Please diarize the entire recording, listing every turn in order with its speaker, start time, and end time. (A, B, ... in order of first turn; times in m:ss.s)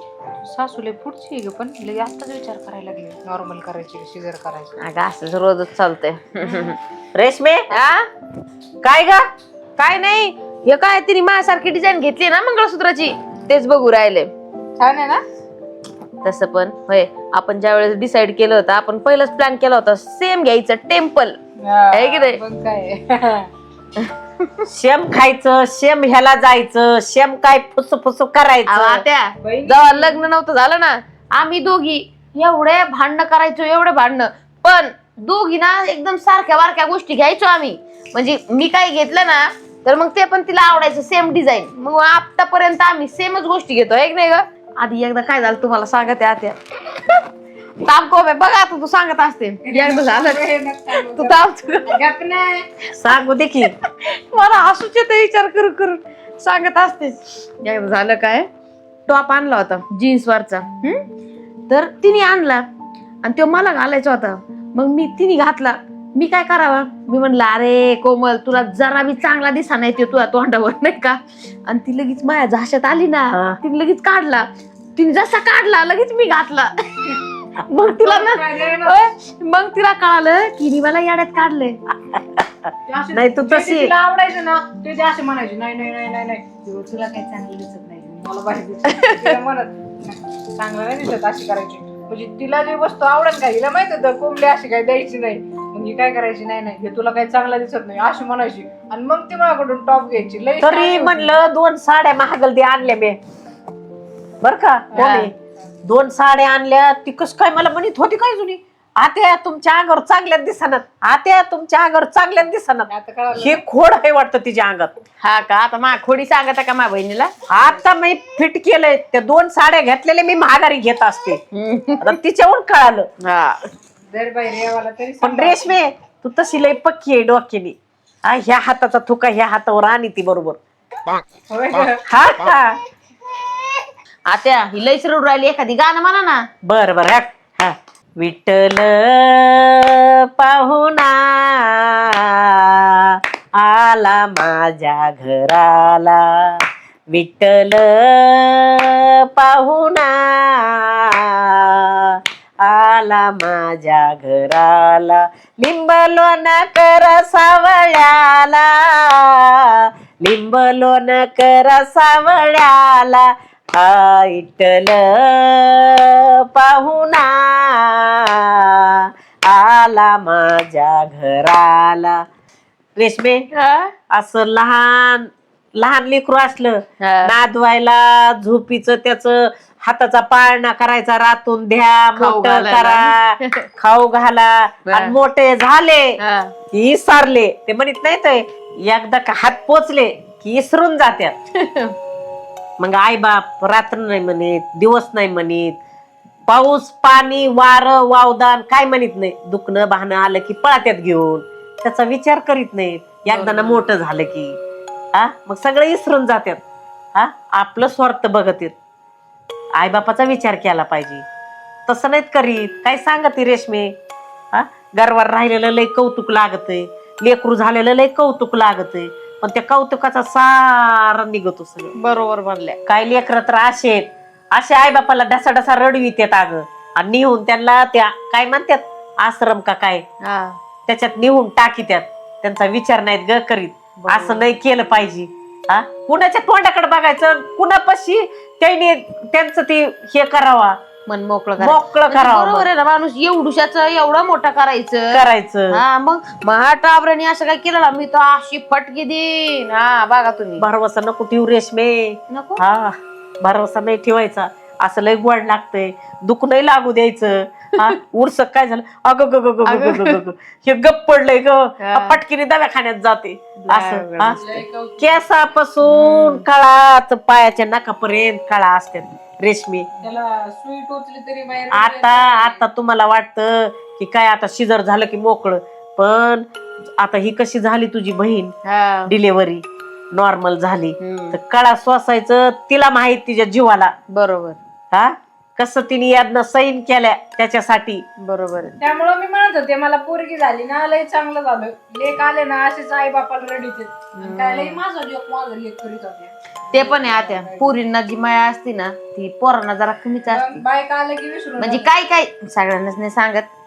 0:00.5-0:04.7 A
0:04.8-0:06.8 B
0:07.1-0:07.7 C
0:07.7-0:08.1 B
0:08.8-0:09.3 C
0:09.8-0:14.3 B
0:14.8-0:15.2 A
0:16.2-0:21.4 B
0:21.6-0:23.5 A
0:21.9-0:22.4 B
0:24.0-0:24.7 B
0:24.7-0:29.0 C
0:28.7-0:46.6 B
0:29.4-0:30.2 A
0:47.8-0:52.0 B
0:49.6-0:52.7 A
0:53.0-0:53.7 C
0:53.7-0:58.5 B
0:59.1-1:01.0 B
1:01.7-1:02.7 B
1:03.2-1:21.8 B
1:13.3-1:13.6 C
1:17.8-1:19.0 A
1:22.1-1:23.9 C
1:22.9-1:41.4 A
1:28.9-1:29.3 B
1:40.6-1:43.2 C
1:44.4-1:45.3 C
1:44.9-1:45.3 A
1:45.8-1:54.9 C
1:52.9-1:53.6 A
1:55.2-1:57.3 B
1:57.5-2:01.4 C
2:01.5-2:02.2 B
2:02.0-2:03.1 C
2:03.2-2:03.6 B
2:04.1-2:05.8 A
2:05.2-2:10.6 C
2:11.5-2:12.0 A
2:12.1-2:12.8 C
2:14.3-2:16.4 B
2:16.6-2:26.6 C
2:27.1-2:52.2 C
2:53.0-2:53.5 C
2:53.5-2:53.9 B
2:54.1-3:06.2 C
2:57.0-2:57.3 B
3:02.2-3:03.7 B
3:04.9-3:05.2 B
3:06.2-3:06.5 B
3:06.7-3:11.3 C
3:11.6-3:12.0 B
3:12.8-3:15.8 C
3:16.5-3:24.6 C
3:23.3-3:23.8 A
3:25.1-3:26.6 C
3:27.2-3:28.8 C
3:29.8-3:31.2 C
3:31.9-3:34.0 C
3:34.5-3:41.9 C
3:42.0-3:42.8 B
3:42.9-3:50.0 C
3:50.2-3:50.6 B
3:50.9-4:00.8 C
3:54.0-3:54.5 B
4:01.1-4:10.7 B
4:01.6-4:02.7 C
4:05.1-4:05.8 C
4:10.6-4:29.9 C
4:12.3-4:12.6 B
4:19.6-4:20.2 B
4:21.8-4:22.2 B
4:23.6-4:24.4 B
4:24.2-4:25.2 A
4:25.8-4:26.4 B
4:30.0-4:32.6 A
4:31.7-4:36.5 C
4:37.0-4:38.5 C
4:38.6-4:39.1 B
4:39.1-4:43.9 C
4:41.0-4:41.4 B
4:44.1-4:44.6 B
4:44.9-4:48.0 C
4:48.2-4:48.8 B
4:48.8-4:57.8 A
4:54.2-4:54.8 B
4:56.7-5:00.6 B
5:00.3-5:01.9 A
5:01.6-5:03.5 B